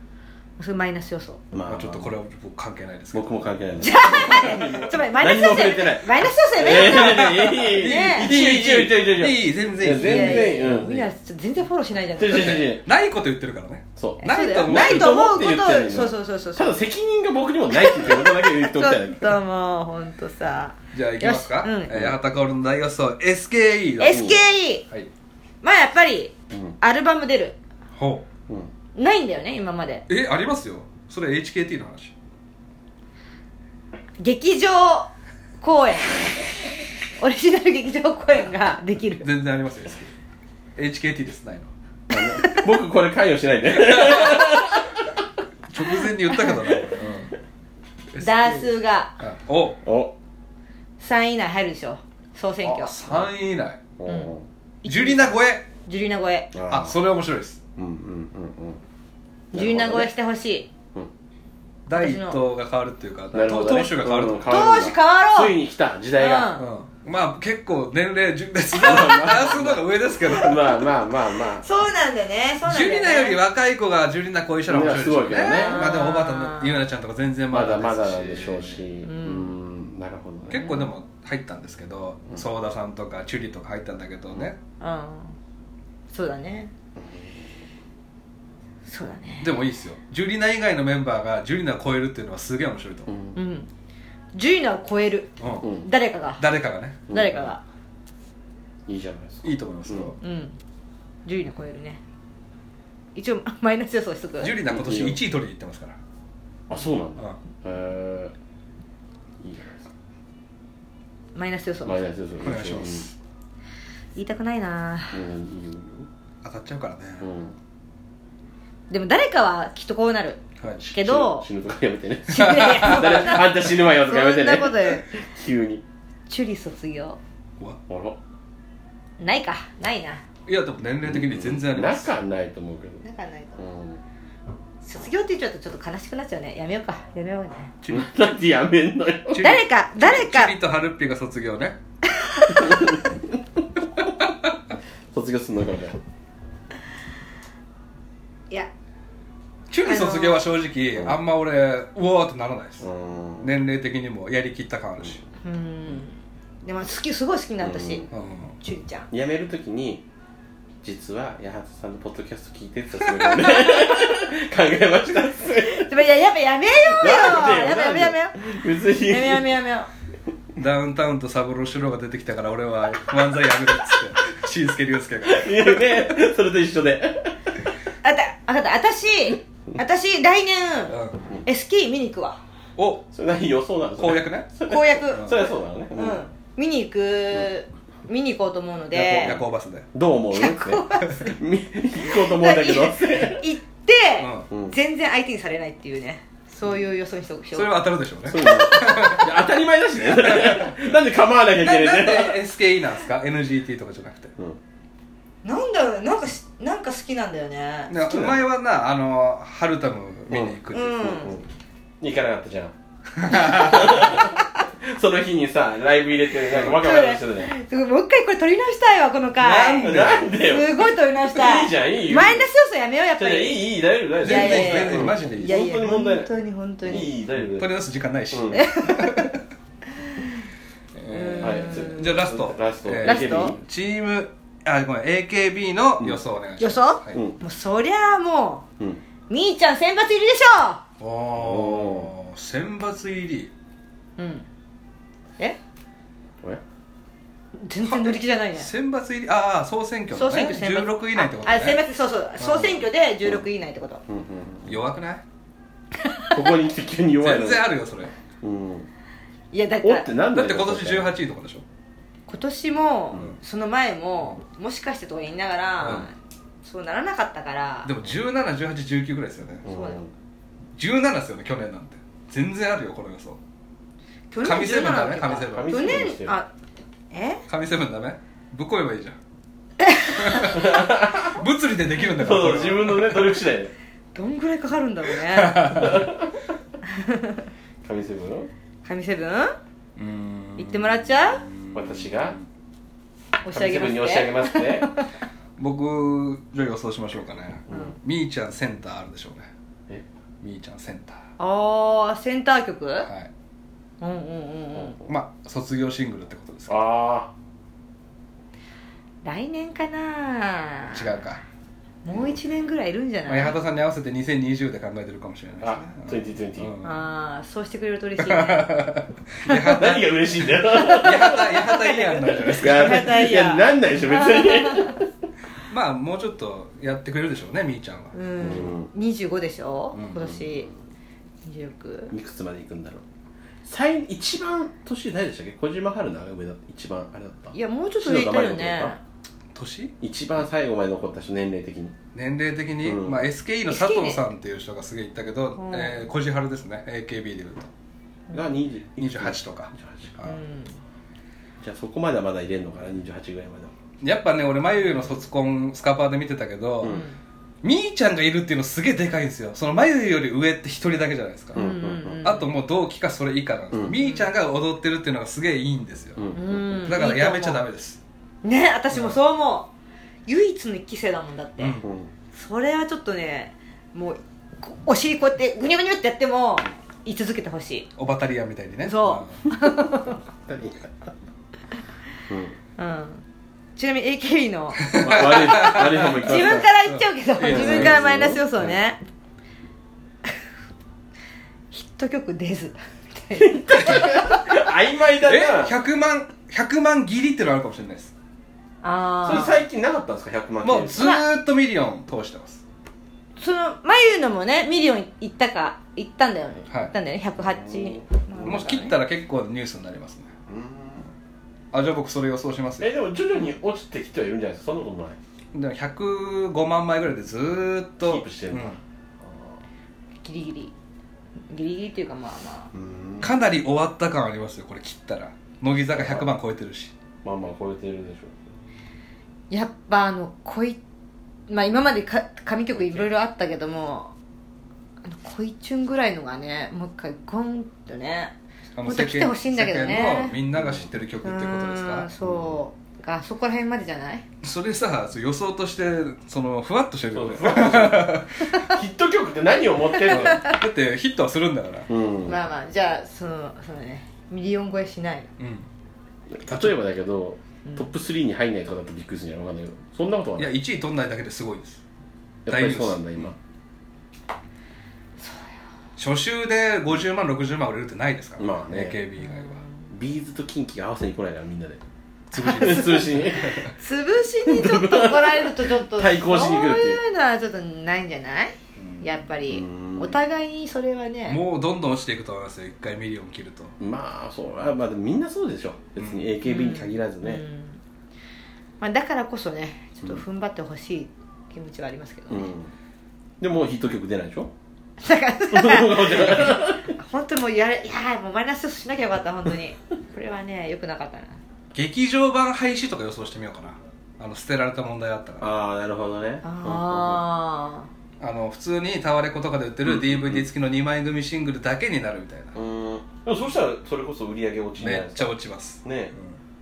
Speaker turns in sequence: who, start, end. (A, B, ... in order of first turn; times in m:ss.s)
0:00.6-0:01.4 A
0:01.5-0:02.1 B
0:01.6-0:03.6 C
0:03.1-0:10.9 B
0:03.8-0:08.3 A
0:06.7-0:11.1 C
0:09.9-0:12.7 A
0:12.2-0:12.8 B
0:12.3-0:15.4 C
0:14.0-0:19.4 B
0:14.2-0:16.8 A
0:17.7-0:21.9 A
0:20.9-0:25.1 C
0:21.9-0:22.1 B
0:24.0-0:24.8 A
0:24.1-0:24.4 B
0:25.6-0:27.6 A
0:26.5-0:26.8 B
0:27.9-0:28.2 C
0:29.0-0:30.0 A
0:30.1-0:32.1 C
0:34.2-0:36.3 A
0:37.2-0:39.3 A
0:39.2-0:40.1 C
0:40.8-0:41.7 C
0:42.1-0:44.8 B
0:43.7-0:44.7 C
0:45.7-0:47.3 C
0:46.3-0:46.8 A
0:48.1-0:49.8 C
0:48.2-0:49.2 A
0:49.8-0:50.1 B
0:51.0-0:52.9 A
0:52.6-0:53.8 C
0:54.0-0:54.4 B
0:54.8-0:56.5 A
0:54.8-0:55.7 C
0:56.5-0:57.0 B
0:56.7-0:57.6 C
0:57.8-0:58.8 B
0:59.5-1:00.1 B
0:59.5-1:00.7 A
1:01.9-1:04.6 C
1:01.9-1:02.4 A
1:03.3-1:06.6 B
1:04.5-1:05.6 A
1:06.2-1:06.6 A
1:06.6-1:10.6 C
1:08.7-1:11.6 B
1:08.8-1:09.3 A
1:11.6-1:13.4 A
1:12.7-1:18.8 C
1:14.7-1:15.8 B
1:15.5-1:16.8 A
1:17.5-1:20.7 B
1:19.0-1:19.5 A
1:20.5-1:24.6 C
1:20.6-1:20.9 A
1:24.8-1:25.3 A
1:26.1-1:26.7 A
1:27.0-1:27.5 B
1:28.9-1:29.5 A
1:29.4-1:33.1 C
1:33.1-1:33.4 B
1:33.3-1:33.7 A
1:34.3-1:36.4 A
1:35.4-1:35.7 C
1:35.6-1:35.9 B
1:36.4-1:37.0 C
1:37.1-1:37.5 B
1:37.1-1:37.6 A
1:38.9-1:40.1 B
1:39.4-1:40.2 C
1:40.2-1:40.6 A
1:41.2-1:42.0 A
1:43.1-1:44.6 A
1:44.4-1:46.0 C
1:44.6-1:45.2 B
1:46.7-1:48.3 B
1:49.4-1:49.9 B
1:51.3-1:52.0 A
1:51.8-1:53.1 B
1:52.4-1:53.1 C
1:54.2-1:55.2 A
1:55.1-1:56.1 B
1:56.4-1:57.2 C
1:57.2-1:57.5 B
1:58.9-2:00.4 A
2:00.8-2:05.8 B
2:00.9-2:01.5 A
2:02.3-2:05.1 A
2:02.4-2:03.4 C
2:06.3-2:07.2 A
2:07.9-2:08.2 B
2:09.2-2:10.2 A
2:10.5-2:12.1 C
2:11.0-2:13.0 B
2:13.0-2:13.6 A
2:13.6-2:14.0 B
2:14.8-2:17.7 A
2:17.8-2:18.1 C
2:17.9-2:19.5 B
2:19.3-2:21.8 C
2:19.3-2:20.5 A
2:22.1-2:22.8 A
2:22.5-2:23.4 B
2:25.1-2:26.0 B
2:29.7-2:32.8 C
2:29.8-2:30.4 A
2:32.8-2:33.5 B
2:33.4-2:35.2 C
2:35.4-2:38.0 A
2:37.6-2:38.1 B
2:38.1-2:38.5 C
2:38.6-2:39.1 A
2:39.1-2:40.0 B
2:40.8-2:45.9 B
2:43.0-2:43.7 C
2:45.7-2:48.4 A
2:46.9-2:49.5 B
2:49.0-2:49.9 A
2:50.6-2:56.2 C
2:55.2-2:57.3 B
2:58.0-3:02.4 A
3:00.9-3:01.2 C
3:02.8-3:03.1 C
3:03.1-3:06.2 B
3:04.0-3:04.5 C
3:04.6-3:05.4 A
3:05.1-3:05.4 C
3:05.9-3:09.4 A
3:08.9-3:09.9 C
3:09.1-3:09.4 B
3:09.9-3:13.4 B
3:10.3-3:11.4 A
3:12.0-3:17.8 A
3:14.2-3:14.5 C
3:14.5-3:14.8 B
3:17.5-3:19.4 C
3:18.3-3:22.4 B
3:18.4-3:18.9 A
3:20.1-3:20.8 C
3:21.6-3:24.3 C
3:25.4-3:27.9 A
3:27.9-3:31.1 C
3:28.0-3:28.4 B
3:30.3-3:31.4 B
3:30.7-3:31.4 A
3:32.0-3:32.7 B
3:33.2-3:34.2 C
3:33.3-3:34.3 A
3:33.3-3:37.5 B
3:36.5-3:36.8 C
3:36.6-3:43.6 A
3:39.4-3:40.3 C
3:39.8-3:42.5 B
3:43.2-3:46.3 B
3:44.2-3:47.1 A
3:44.2-3:45.6 C
3:46.8-3:47.7 B
3:47.4-3:49.3 C
3:48.3-3:48.6 B
3:48.5-3:49.3 A
3:50.0-3:50.3 A
3:51.0-3:57.2 C
3:51.1-3:52.1 A
3:51.4-3:53.6 B
3:53.0-3:53.5 A
3:56.6-3:58.6 A
3:57.1-3:57.4 B
3:59.3-4:00.8 A
4:01.0-4:03.5 C
4:01.4-4:02.1 B
4:04.2-4:04.5 A
4:07.6-4:08.7 A
4:07.8-4:11.8 C
4:10.1-4:14.0 A
4:12.4-4:12.8 C
4:14.1-4:14.8 B
4:14.6-4:15.2 C
4:16.3-4:17.7 B
4:17.2-4:18.1 C
4:18.4-4:18.9 B
4:19.5-4:20.1 A
4:19.8-4:21.1 B
4:20.3-4:21.6 C
4:22.3-4:26.1 A
4:26.6-4:27.9 A
4:27.8-4:29.6 C
4:29.6-4:30.1 B
4:29.6-4:30.0 A
4:30.8-4:33.4 C
4:34.3-4:36.5 A
4:34.4-4:36.0 C
4:35.4-4:36.4 B
4:37.1-4:37.4 A
4:37.5-4:39.2 C
4:39.8-4:40.5 A
4:40.1-4:43.3 C
4:40.4-4:41.4 B
4:42.1-4:43.7 B
4:44.1-4:46.1 A
4:45.3-4:46.1 C
4:45.8-4:46.3 B
4:46.8-4:47.4 A
4:47.8-4:48.5 B
4:48.8-4:49.5 A
4:50.0-4:52.4 C
4:50.6-4:51.4 A
4:51.7-4:52.4 B
4:53.4-4:55.1 A
4:53.5-4:54.9 B
4:55.6-4:59.5 C
4:57.7-4:57.9 B
5:00.4-5:01.2 C
5:01.4-5:03.1 A
5:03.0-5:03.3 C
5:04.0-5:05.0 A
5:05.0-5:06.8 C
5:06.7-5:07.3 B
5:09.2-5:11.1 A
5:10.9-5:11.4 C
5:12.0-5:13.6 A
5:13.3-5:17.0 C
5:15.6-5:16.7 B
5:16.8-5:18.9 A
5:18.2-5:23.2 C
5:19.4-5:19.8 A
5:19.7-5:25.1 B
5:22.4-5:24.9 A
5:25.7-5:28.2 C
5:28.1-5:30.7 A
5:28.4-5:28.9 B
5:30.1-5:30.6 B
5:31.4-5:32.1 A
5:32.1-5:33.0 B
5:33.6-5:38.9 B
5:37.5-5:39.0 A
5:39.5-5:39.9 C
5:40.0-5:42.0 B
5:42.1-5:47.7 C
5:42.8-5:43.3 B
5:43.7-5:44.2 A
5:45.6-5:46.0 A
5:48.3-5:50.1 B
5:49.0-5:50.4 C
5:50.2-5:50.7 A
5:51.6-5:53.7 B
5:54.0-5:57.0 C
5:56.9-5:57.2 A
5:57.6-6:06.3 C
6:01.5-6:02.2 B
6:01.5-6:02.5 A
6:03.9-6:04.3 A
6:06.2-6:06.9 B
6:06.3-6:07.6 A
6:06.8-6:08.0 C
6:08.4-6:09.7 A
6:08.9-6:09.2 C
6:10.3-6:11.8 A
6:11.6-6:11.8 C
6:11.8-6:12.1 B
6:12.3-6:17.9 A
6:18.0-6:19.5 C
6:18.8-6:20.2 A
6:20.4-6:21.1 B
6:22.3-6:22.6 B
6:22.8-6:23.2 A
6:23.8-6:29.0 A
6:24.8-6:28.0 C
6:24.9-6:26.7 B
6:27.4-6:28.7 B
6:31.7-6:34.6 A
6:33.4-6:35.7 B
6:35.2-6:38.1 C
6:38.8-6:39.6 A
6:39.2-6:41.1 B
6:40.6-6:42.6 C
6:41.0-6:41.2 A
6:43.4-6:48.9 A
6:47.4-6:48.6 B
6:48.4-6:50.3 C
6:50.5-6:51.1 B
6:51.7-6:52.9 C
6:52.8-6:55.2 B
6:55.5-6:58.8 C
6:58.0-6:59.6 B
7:00.2-7:00.7 A
7:01.5-7:02.7 A
7:02.7-7:03.3 B
7:03.2-7:06.9 C
7:05.9-7:06.3 B
7:07.2-7:08.4 B
7:09.5-7:10.8 A
7:11.5-7:14.1 A
7:12.8-7:13.0 C
7:15.0-7:18.3 A
7:18.7-7:22.1 C
7:18.8-7:20.4 A
7:20.6-7:20.8 B
7:21.2-7:24.2 A
7:22.2-7:22.6 B
7:24.4-7:28.6 C
7:27.1-7:30.5 B
7:30.1-7:31.9 C
7:30.1-7:30.4 A
7:31.9-7:32.4 B
7:32.2-7:35.3 A
7:35.4-7:35.7 C
7:36.3-7:40.5 B
7:36.5-7:36.8 C
7:40.4-7:41.8 C
7:42.4-7:43.4 B
7:42.5-7:43.3 C
7:46.0-7:49.6 C
7:48.4-7:49.0 B
7:49.2-7:49.8 A
7:49.9-7:51.8 B
7:52.3-7:53.7 C
7:52.4-7:53.6 B
7:52.4-7:53.1 A
7:53.7-8:01.4 A
7:54.4-7:57.0 B
7:58.8-7:59.0 C
7:59.5-8:00.2 B
8:01.2-8:03.7 C
8:03.8-8:07.4 B
8:06.0-8:06.2 C
8:06.4-8:07.8 A
8:08.8-8:12.5 A
8:12.3-8:12.7 B
8:13.4-8:14.5 B
8:15.0-8:21.4 A
8:15.5-8:16.9 B
8:21.7-8:25.5 C
8:25.4-8:27.2 B
8:26.4-8:27.9 A
8:28.2-8:32.6 C
8:29.8-8:30.4 B
8:32.5-8:35.3 B
8:34.8-8:36.4 C
8:35.8-8:36.1 B